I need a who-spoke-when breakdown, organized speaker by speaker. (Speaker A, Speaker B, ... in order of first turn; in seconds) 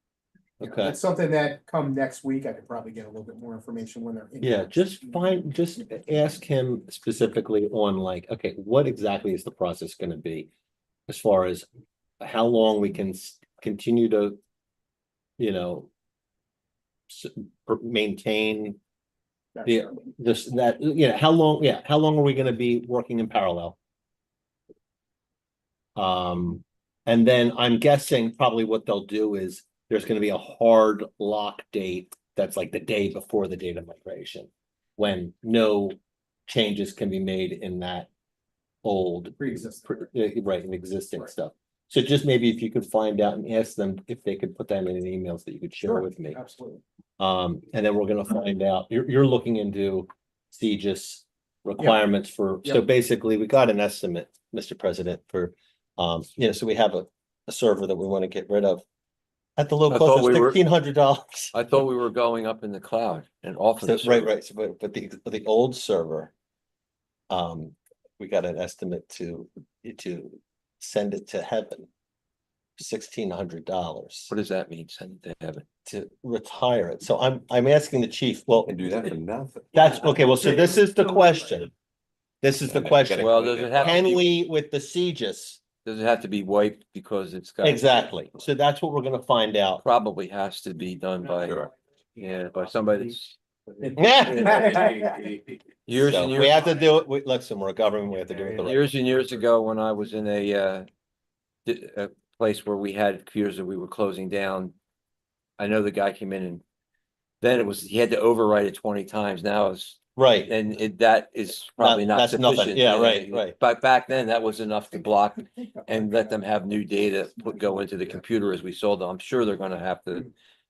Speaker A: 0.6-1.0, 4.4-10.5, 11.1-11.7, 12.2-14.4, 15.4-15.9, 17.1-18.8, 19.6-23.8, 25.9-36.0, 36.5-38.1, 38.8-46.4, 47.2-58.8, 59.6-61.5, 63.8-66.3, 67.3-71.9, 72.8-74.3, 75.8-78.8, 79.7-81.7, 82.4-85.6, 87.6-89.8, 94.0-95.0, 95.9-98.9, 110.2-110.5, 111.8-113.5
Speaker B: 0.6-4.8, 39.4-40.1, 45.8-46.8
Speaker C: 59.9-60.6, 61.5-64.3, 74.3-75.6, 83.2-84.2, 85.8-87.8, 89.8-91.6, 92.2-93.4, 94.2-94.9, 95.8-96.7, 98.6-100.8, 101.7-104.7, 105.6-106.6, 107.4-120.3
Speaker D: 78.7-79.9, 82.6-84.2, 91.4-91.7, 94.7-95.2